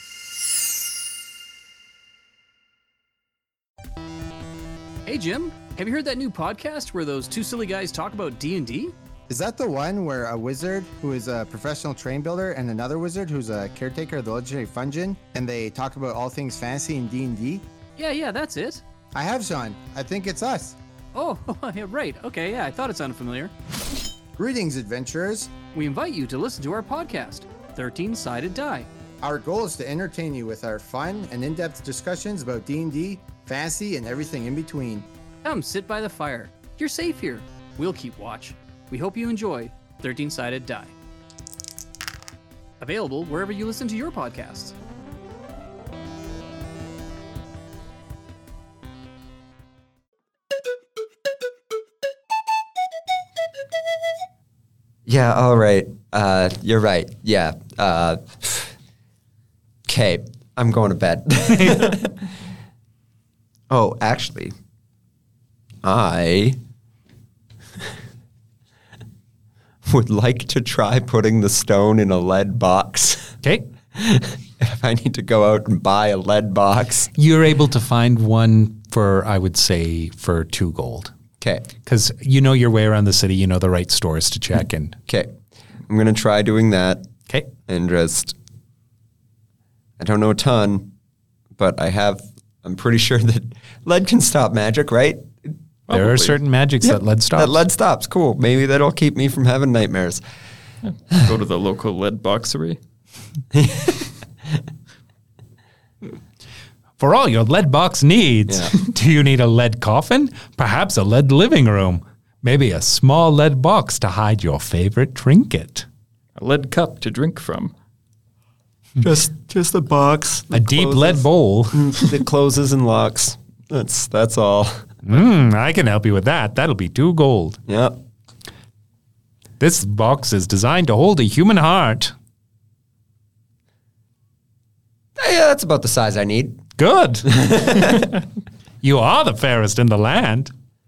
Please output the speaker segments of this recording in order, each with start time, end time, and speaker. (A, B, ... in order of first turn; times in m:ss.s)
0:05.0-0:08.9 A
0:09.3-0:17.6 B
0:18.0-0:18.8 A
0:19.1-0:20.8 B
0:21.1-0:23.5 A
0:24.4-0:25.6 B
0:25.7-0:28.9 A
0:29.2-0:35.1 B
0:35.4-0:40.9 A
0:42.8-0:44.7 A
0:55.0-0:58.7 C
0:59.9-1:02.3 C
1:03.7-1:04.5 C
1:05.8-1:06.6 C
1:09.8-1:13.4 C
1:13.4-1:13.7 D
1:13.9-1:17.1 C
1:17.1-1:21.1 D
1:21.4-1:21.7 C
1:21.8-1:25.0 D
1:25.1-1:25.3 C
1:25.9-1:27.1 C
1:27.6-1:28.3 C
1:30.0-1:30.9 C
1:31.6-1:35.5 C
1:35.9-1:36.4 E
1:35.9-1:37.6 D
1:36.8-1:40.2 C
1:40.9-1:42.8 E
1:43.5-1:44.1 C
1:47.0-1:55.8 D
1:48.5-1:48.7 C
1:56.4-1:57.7 E
1:59.0-2:04.9 C
2:00.5-2:02.0 D
2:05.0-2:07.6 D
2:07.7-2:08.0 C
2:09.6-2:12.1 D
2:15.2-2:16.6 C
2:16.8-2:17.3 D
2:17.2-2:18.1 C
2:18.8-2:20.5 D